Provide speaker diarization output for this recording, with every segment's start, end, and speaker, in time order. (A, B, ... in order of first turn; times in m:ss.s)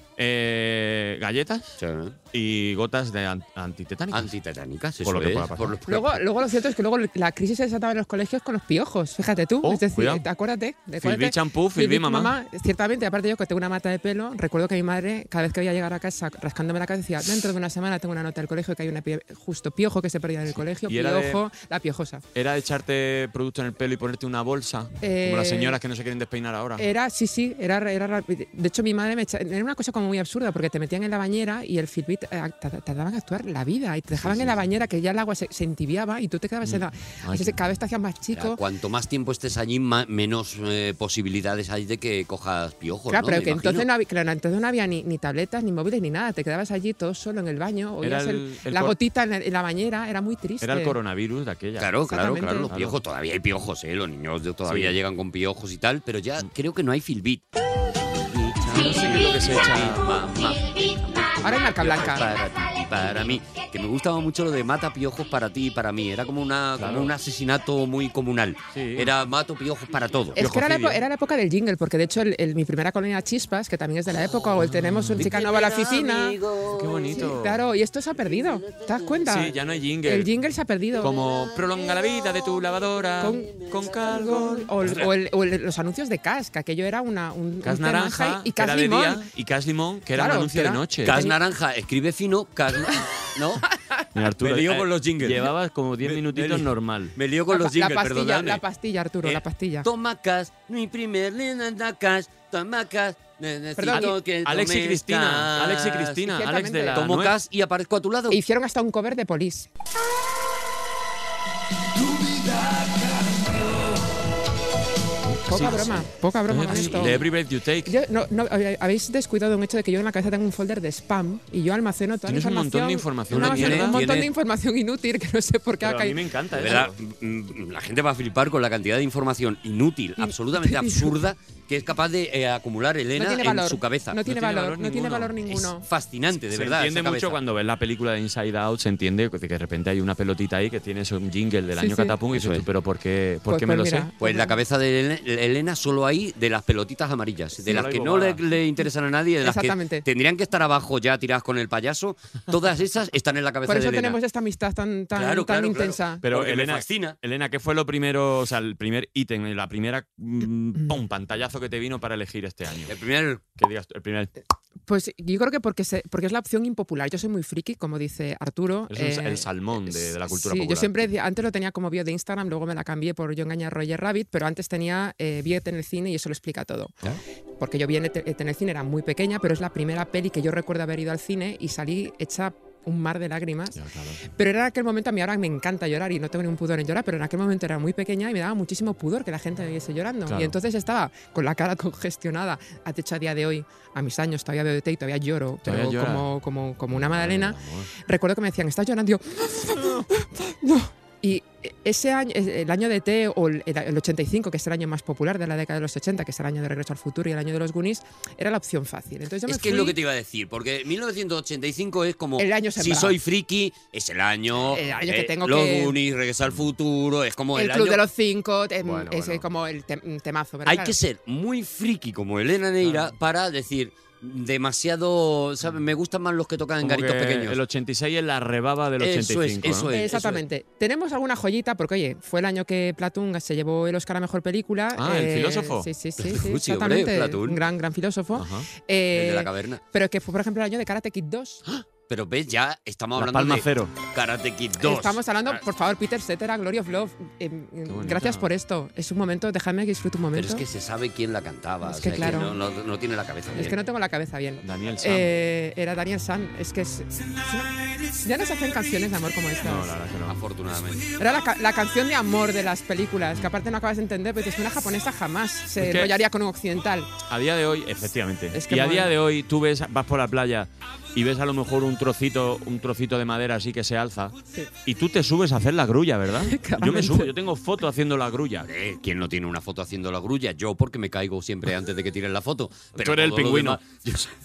0:00.2-0:01.8 A
0:01.8-0:02.2 B
0:02.3-0:04.3 A
0:04.1-0:05.8 B
0:05.0-0:06.2 A
0:05.9-0:22.2 C
0:09.6-0:10.3 A
0:11.0-0:12.3 A
0:20.7-0:21.4 A
0:22.3-0:26.9 A
0:25.0-0:25.8 C
0:26.8-0:38.6 C
0:34.2-0:34.5 B
0:36.6-0:37.6 A
0:38.3-0:43.9 B
0:43.1-0:51.0 C
0:48.0-0:49.0 A
0:50.6-0:51.9 A
0:51.8-1:10.4 B
0:52.0-0:52.7 C
0:52.7-0:53.0 A
0:54.7-0:55.0 A
0:58.7-1:00.3 A
1:01.4-1:02.3 C
1:06.8-1:07.1 A
1:08.7-1:09.1 A
1:10.3-1:16.4 C
1:10.4-1:11.0 A
1:14.1-1:17.3 B
1:14.6-1:15.3 A
1:16.7-1:17.6 A
1:17.1-1:19.5 C
1:18.2-1:19.8 B
1:19.2-1:20.3 A
1:20.0-1:21.1 C
1:21.0-1:25.0 A
1:21.0-1:24.1 B
1:23.2-1:29.2 C
1:24.8-1:25.1 B
1:27.6-1:31.2 A
1:30.1-1:31.4 C
1:31.0-1:33.6 B
1:34.1-1:37.2 A
1:34.4-1:35.5 B
1:36.0-1:38.6 B
1:37.5-1:39.9 C
1:39.2-1:46.3 B
1:43.8-1:44.1 C
1:43.9-1:47.3 A
1:46.2-1:47.0 C
1:46.9-1:48.4 B
1:48.3-1:49.7 C
1:55.2-1:57.9 A
1:55.5-1:57.2 C
1:56.6-1:57.2 B
1:57.8-2:06.2 C
2:02.2-2:04.0 A
2:03.3-2:04.3 B
2:05.8-2:07.0 A
2:06.6-2:14.2 B
2:10.2-2:11.2 C
2:13.2-2:15.8 C
2:14.2-2:15.4 A
2:15.5-2:17.3 B
2:16.4-2:24.1 A
2:21.8-2:22.2 C
2:22.3-2:22.6 B
2:23.5-2:24.5 C
2:24.2-2:34.2 B
2:27.6-2:28.4 A
2:29.4-2:30.0 C
2:33.6-2:36.2 C
2:35.1-2:37.2 B
2:36.2-2:42.9 A
2:42.8-2:43.4 B
2:43.6-2:44.3 A
2:44.9-2:56.9 C
2:48.9-2:51.0 A
2:57.6-3:03.8 C
3:03.7-3:04.2 A
3:04.3-3:30.0 C
3:10.3-3:10.6 A
3:15.6-3:16.3 A
3:16.9-3:17.9 A
3:19.8-3:20.1 A
3:29.5-3:38.0 B
3:32.4-3:33.2 C
3:34.7-3:35.9 C
3:37.5-3:40.9 C
3:38.8-3:39.5 A
3:40.6-3:47.6 B
3:42.8-3:43.2 A
3:46.8-3:49.9 A
3:49.0-3:50.4 B
3:49.9-4:01.6 C
3:54.9-3:55.9 A
3:56.2-3:57.6 B
3:58.3-3:58.7 A
3:59.1-3:59.8 B
4:02.1-4:05.6 B
4:03.2-4:03.9 A
4:04.8-4:10.6 C
4:07.8-4:08.5 A
4:10.3-4:13.8 B
4:11.8-4:12.6 C
4:13.5-4:19.9 C
4:14.6-4:15.3 A
4:19.6-4:21.0 A
4:20.3-4:21.1 B
4:21.2-4:27.1 C
4:25.8-4:26.2 A
4:27.2-4:38.7 A
4:28.5-4:29.1 C
4:36.4-4:37.3 C
4:38.6-4:44.3 B
4:43.0-4:43.8 A